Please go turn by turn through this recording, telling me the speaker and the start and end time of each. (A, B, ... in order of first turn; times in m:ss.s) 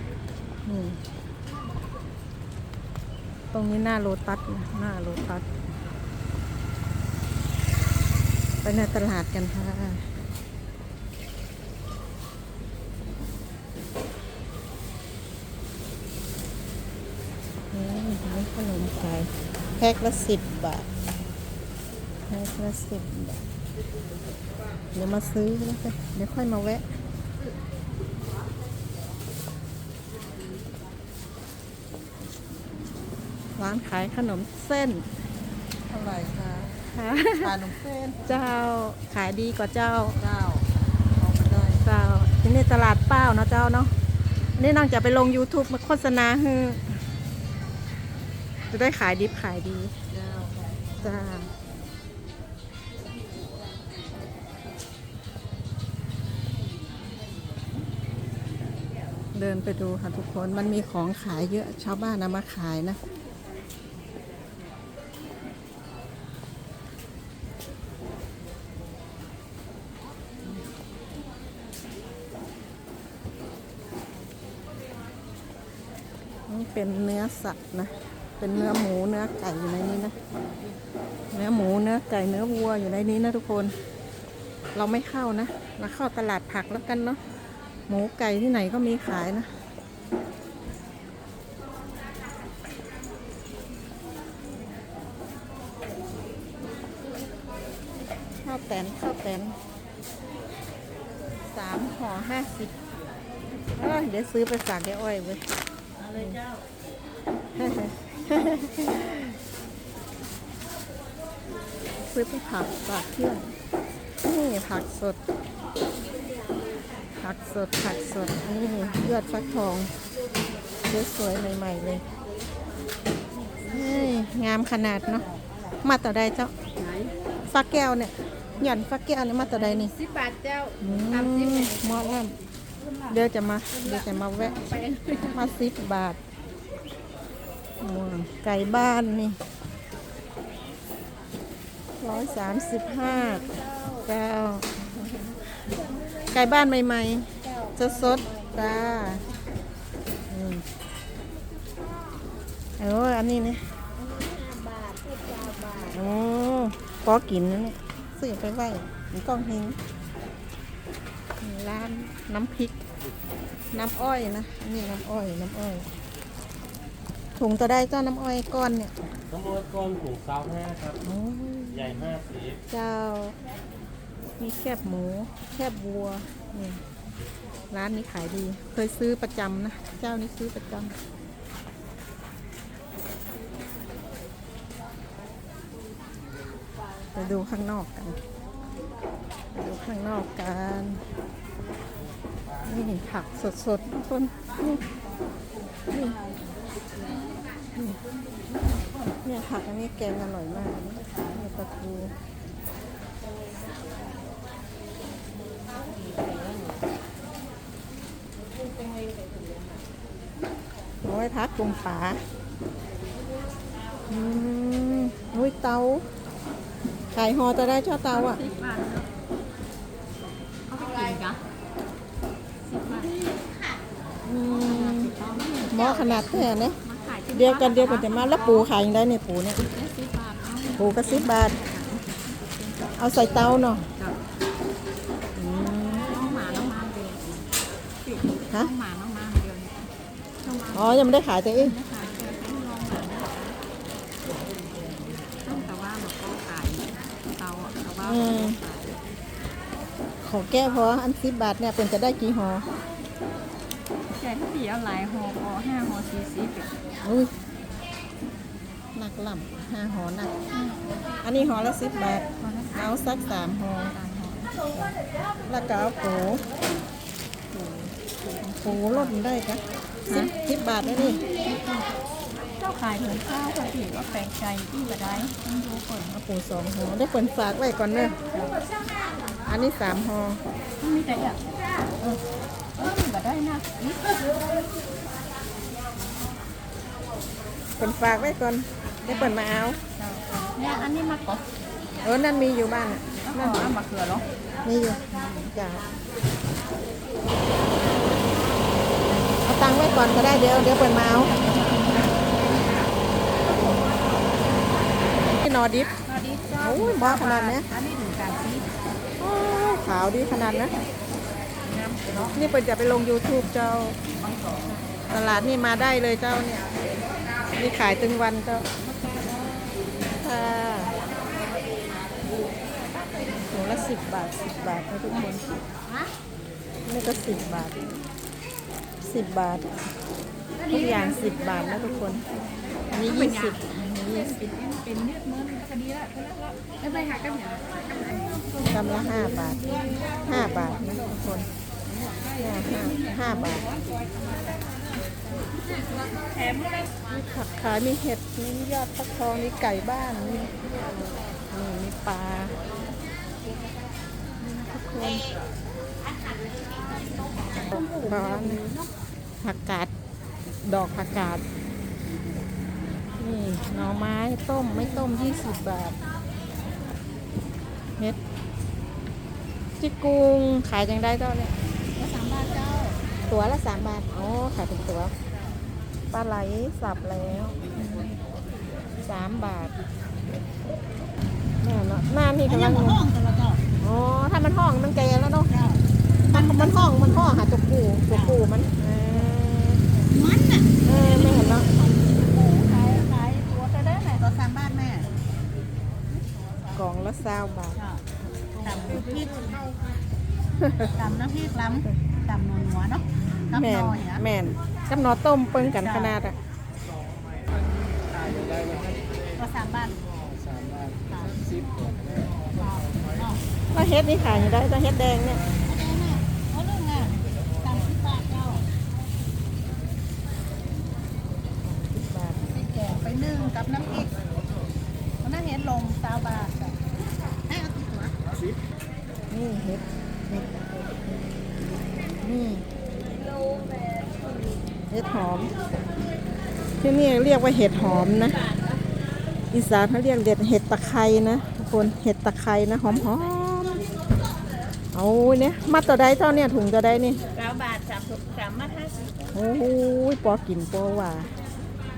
0:00.6-0:01.0 A
0:03.5-0:05.4 A
0:08.6-0:10.0 A
0:17.7-0:20.9 A
0:22.3-0:23.4 A
0:24.9-0:26.8 A
0:33.6-0:35.0 A
0:36.8-0:37.6 A
0:38.2-0:40.2 A
0:41.8-0:43.9 A
0:44.5-0:47.0 A
0:48.7-0:50.0 A
0:51.0-0:51.5 A
0:59.3-1:03.0 A
1:16.5-1:20.2 A
1:21.3-1:23.8 A
1:24.7-1:27.2 A
1:27.9-1:29.5 A
1:38.4-1:39.6 A
1:41.5-1:42.7 A
1:43.8-1:45.4 A
1:46.1-1:46.4 A
1:47.6-1:49.4 A
1:52.1-1:53.5 A
1:54.2-1:55.2 A
1:57.2-1:59.9 A
2:00.8-2:02.0 A
2:03.6-2:05.3 A
2:05.8-2:06.5 A
2:06.8-2:07.1 B
2:07.5-2:09.9 A
2:09.9-2:11.9 B
2:10.8-2:12.4 A
2:13.1-2:14.6 A
2:13.7-2:15.5 B
2:15.3-2:16.2 A
2:17.8-2:19.4 A
2:22.0-2:23.5 A
2:23.4-2:24.0 B
2:24.0-2:29.2 A
2:27.5-2:28.8 B
2:30.3-2:30.6 A
2:32.8-2:33.7 A
2:34.1-2:35.8 B
2:35.8-2:39.8 A
2:41.4-2:42.8 A
2:43.7-2:45.8 A
2:47.4-2:48.9 A
2:49.3-2:51.0 C
2:51.0-2:53.4 A
2:52.2-2:52.6 C
2:54.4-2:56.8 A
2:57.7-3:01.0 A
3:07.1-3:08.2 A
3:09.5-3:11.0 A
3:12.6-3:14.8 A
3:15.9-3:16.2 A
3:16.0-3:17.3 B
3:19.2-3:22.1 A
3:26.1-3:26.6 B
3:31.0-3:32.2 A
3:34.1-3:36.0 A
3:37.1-3:38.4 A
3:38.1-3:39.1 B
3:40.7-3:41.4 B
3:42.7-3:43.6 B
3:44.2-3:45.1 A
3:44.5-3:48.7 B
3:45.7-3:46.8 A
3:47.3-3:49.6 A
3:49.6-3:52.9 B
3:50.8-3:51.6 A
3:53.0-3:53.8 A
3:55.4-3:56.2 A
3:56.0-3:57.4 B
3:58.0-3:59.9 B
4:00.4-4:03.6 B
4:00.7-4:01.8 A
4:05.4-4:08.9 B
4:08.0-4:08.6 A
4:10.2-4:12.6 A
4:14.2-4:16.7 B
4:17.0-4:17.3 A
4:18.9-4:20.6 A
4:21.2-4:24.0 A
4:22.4-4:24.6 B
4:25.5-4:26.4 A
4:27.5-4:31.2 A
4:28.3-4:29.1 B
4:30.1-4:31.9 B
4:32.6-4:36.1 B
4:36.0-4:38.2 A
4:38.3-4:39.1 B
4:39.4-4:40.4 A
4:41.0-4:41.8 B
4:42.8-4:44.6 B
4:47.8-4:49.8 A
4:49.1-4:49.3 B
4:50.0-4:51.5 B
4:52.0-4:53.7 A
4:53.2-4:54.2 B
4:54.6-4:55.9 A
4:55.1-4:55.5 B
4:59.4-5:01.3 A
5:00.9-5:02.9 B
5:05.3-5:05.9 A
5:06.0-5:08.7 B
5:06.6-5:07.7 A
5:09.2-5:10.8 A
5:11.7-5:12.5 B
5:12.3-5:14.0 A
5:14.2-5:14.9 B
5:15.1-5:16.8 A
5:17.5-5:18.7 A
5:18.8-5:19.8 B
5:20.2-5:20.9 A
5:22.6-5:23.5 B
5:23.5-5:25.4 A
5:25.2-5:26.1 B
5:26.8-5:28.0 A
5:29.0-5:29.8 A
5:30.6-5:38.4 B
5:30.7-5:32.2 A
5:32.9-5:34.4 A
5:38.6-5:41.5 A
5:39.6-5:40.8 B
5:41.9-5:44.9 B
5:42.4-5:43.6 A
5:45.7-5:46.9 B
5:47.1-5:50.5 A
5:51.5-5:52.6 A
5:54.4-5:55.3 A
5:56.1-5:58.9 B
5:57.7-5:58.6 A
5:59.4-5:59.9 A
6:00.6-6:01.4 A
6:03.2-6:06.0 A
6:09.8-6:11.5 A
6:12.0-6:13.0 B
6:13.3-6:15.1 A
6:16.1-6:17.7 A
6:19.0-6:19.8 A
6:21.6-6:23.0 A
6:22.5-6:23.6 B
6:23.8-6:25.5 A
6:25.5-6:25.8 B
6:26.3-6:29.9 A
6:26.3-6:26.7 B
6:30.1-6:35.1 B
6:30.8-6:31.7 A
6:36.7-6:37.8 A
6:37.8-6:38.0 B
6:38.6-6:39.7 B
6:40.6-6:40.9 A
6:41.0-6:44.2 B
6:43.5-6:46.4 A
6:45.8-6:46.2 B
6:49.4-6:50.1 B
6:51.1-6:51.7 B
6:52.5-6:53.4 B
6:53.7-6:55.4 A
6:55.6-6:58.6 B
7:01.6-7:02.5 A
7:02.4-7:04.1 B
7:05.2-7:06.8 B
7:07.5-7:08.2 B
7:09.3-7:11.2 A
7:12.2-7:12.6 A
7:14.9-7:15.5 A
7:16.8-7:18.4 A
7:19.5-7:23.9 A
7:24.9-7:27.2 A
7:27.3-7:29.3 B
7:29.3-7:31.3 A